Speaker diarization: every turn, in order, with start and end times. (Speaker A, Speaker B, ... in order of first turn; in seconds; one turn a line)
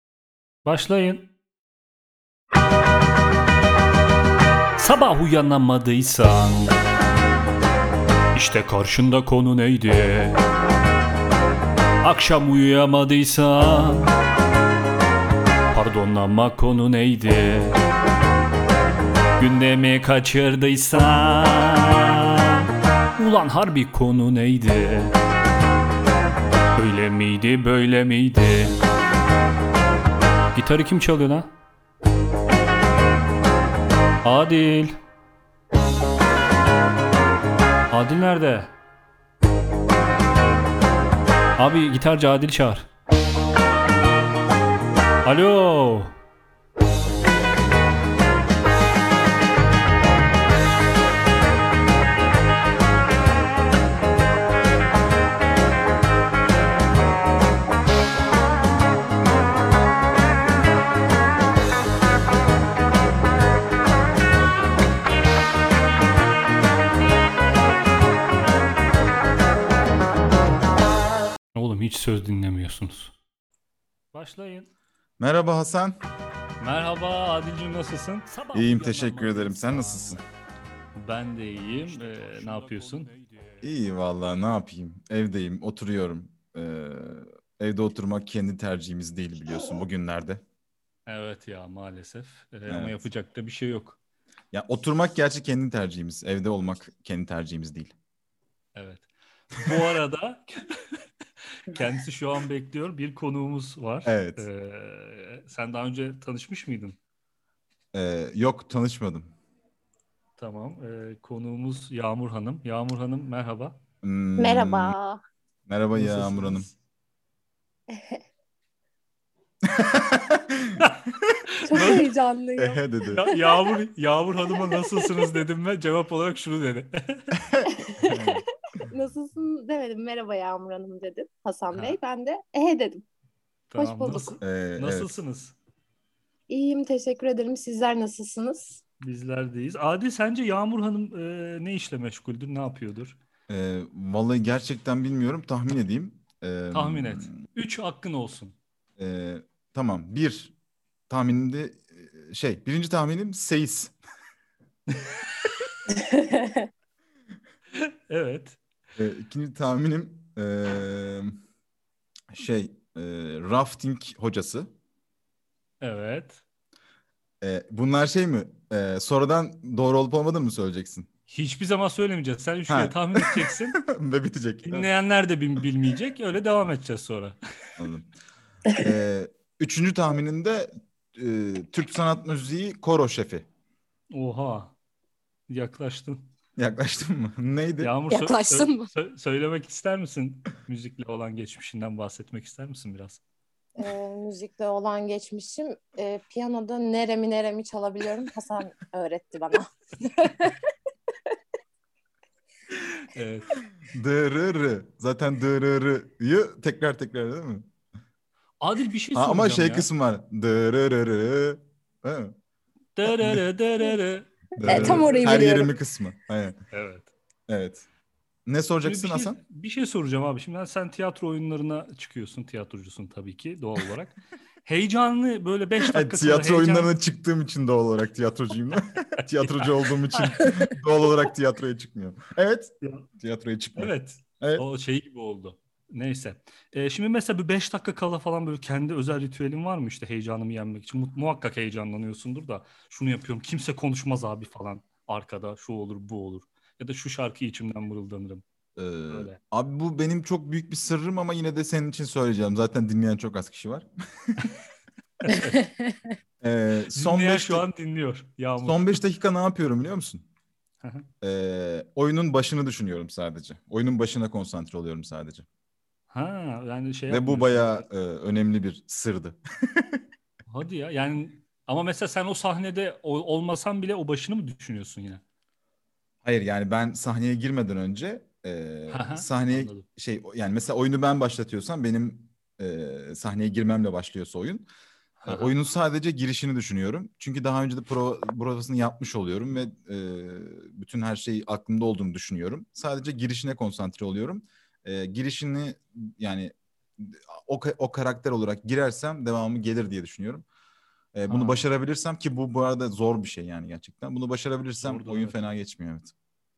Speaker A: 0.6-1.3
Speaker A: 4.8-6.8
Speaker A: 8.3-10.4
Speaker A: 12.0-14.1
Speaker A: 15.7-17.8
Speaker A: 19.4-25.1
Speaker A: 26.8-28.8
Speaker A: 30.5-31.5
Speaker A: 34.2-35.0
Speaker A: 37.9-38.7
Speaker A: 41.6-42.9
Speaker A: 45.2-46.1
Speaker A: 71.5-73.1
Speaker A: 74.1-74.7
Speaker B: 75.2-76.0
Speaker A: 76.6-80.2
Speaker B: 78.5-80.2
Speaker A: 81.0-83.1
Speaker B: 83.6-90.4
Speaker A: 91.0-94.0
Speaker B: 92.7-93.0
Speaker B: 94.5-97.9
Speaker A: 98.7-101.0
Speaker A: 101.6-107.0
Speaker B: 104.0-104.5
Speaker B: 107.9-109.3
Speaker A: 110.4-113.8
Speaker B: 114.0-114.9
Speaker C: 114.4-115.2
Speaker B: 115.7-116.7
Speaker A: 115.9-116.7
Speaker C: 117.9-118.2
Speaker B: 119.6-122.0
Speaker A: 121.5-122.1
Speaker C: 121.7-123.8
Speaker B: 122.6-123.3
Speaker A: 123.1-127.3
Speaker C: 124.6-125.2
Speaker B: 127.4-128.4
Speaker C: 127.8-133.0
Speaker A: 131.7-132.0
Speaker A: 133.7-135.6
Speaker C: 133.8-134.4
Speaker B: 134.4-135.1
Speaker C: 136.5-138.8
Speaker A: 139.0-143.2
Speaker B: 143.5-147.3
Speaker A: 146.7-148.5
Speaker B: 149.0-150.5
Speaker B: 151.1-153.9
Speaker C: 155.9-156.7
Speaker A: 157.7-158.6
Speaker B: 159.0-161.4
Speaker B: 162.3-164.7
Speaker A: 165.8-166.4
Speaker B: 167.4-171.1
Speaker A: 171.3-173.8
Speaker B: 172.7-174.9
Speaker A: 174.6-177.4
Speaker B: 177.8-178.1
Speaker B: 178.7-183.5
Speaker A: 184.1-184.7
Speaker A: 185.5-186.3
Speaker B: 186.6-187.9
Speaker A: 187.8-193.2
Speaker C: 188.1-188.9
Speaker C: 193.8-200.6
Speaker A: 203.0-203.6
Speaker B: 203.8-207.7
Speaker A: 208.6-209.9
Speaker B: 209.1-212.3
Speaker A: 212.9-215.4
Speaker B: 213.1-213.4
Speaker B: 214.6-216.6
Speaker C: 214.6-215.7
Speaker A: 216.7-217.1
Speaker B: 217.5-217.8
Speaker B: 218.4-219.4
Speaker A: 218.8-226.9
Speaker B: 225.9-234.6
Speaker A: 229.4-229.7
Speaker C: 230.3-230.7
Speaker A: 232.8-233.1
Speaker A: 233.8-248.4
Speaker B: 248.8-254.6
Speaker A: 249.1-249.4
Speaker A: 255.2-255.6
Speaker C: 255.6-256.0
Speaker B: 256.4-257.6
Speaker A: 256.9-259.0
Speaker B: 258.6-260.2
Speaker A: 260.8-261.1
Speaker B: 261.2-265.4
Speaker A: 266.1-267.9
Speaker B: 267.1-270.0
Speaker A: 270.5-275.2
Speaker B: 276.2-284.6
Speaker A: 278.9-279.9
Speaker A: 285.2-285.5
Speaker B: 285.2-300.4
Speaker B: 301.1-306.1
Speaker A: 301.3-301.7
Speaker A: 304.8-305.5